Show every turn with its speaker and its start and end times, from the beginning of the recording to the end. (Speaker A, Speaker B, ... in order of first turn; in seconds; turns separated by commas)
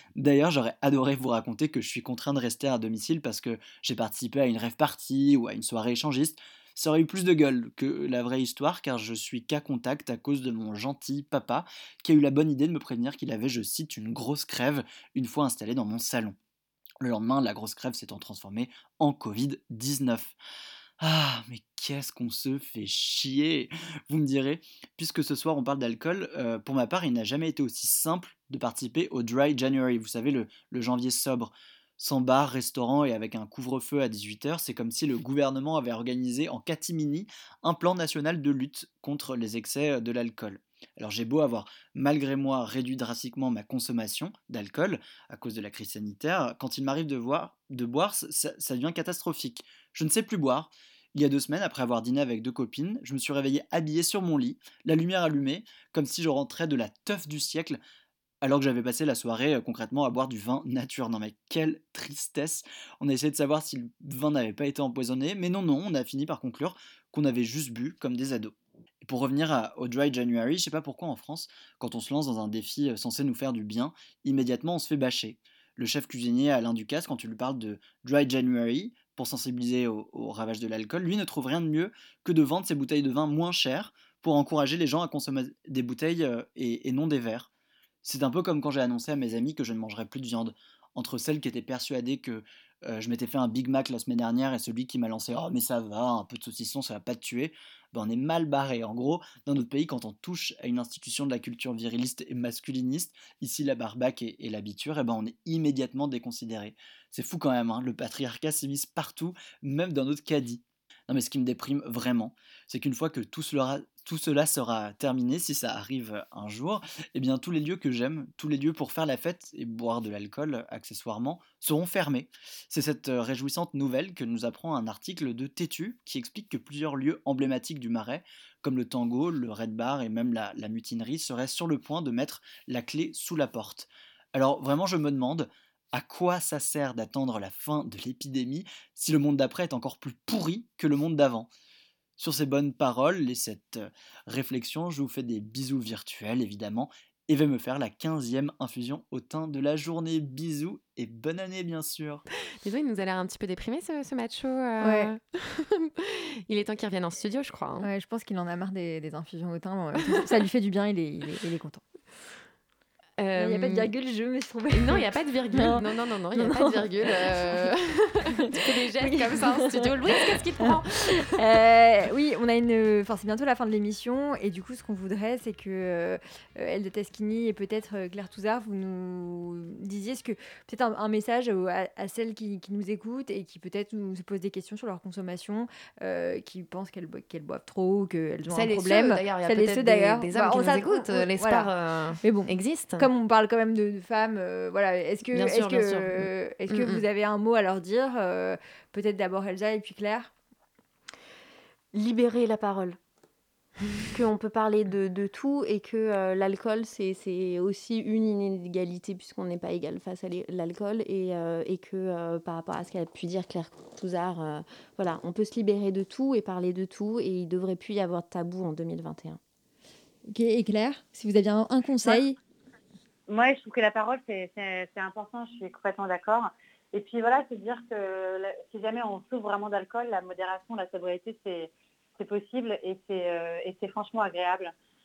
Speaker A: 0.2-16.4, Speaker A: 17.0-20.3, Speaker A: 21.0-57.8, Speaker A: 58.4-87.5, Speaker A: 88.0-141.5, Speaker A: 142.2-152.2, Speaker B: 152.6-157.9, Speaker C: 154.8-155.1, Speaker C: 157.8-161.8, Speaker B: 163.2-163.9, Speaker C: 163.4-165.0, Speaker B: 164.7-171.4, Speaker C: 165.5-165.8, Speaker C: 166.3-167.7, Speaker C: 168.3-200.3, Speaker B: 188.5-193.1, Speaker B: 195.3-197.0, Speaker D: 201.9-203.0, Speaker D: 204.1-219.4, Speaker C: 220.3-222.4, Speaker E: 223.3-234.7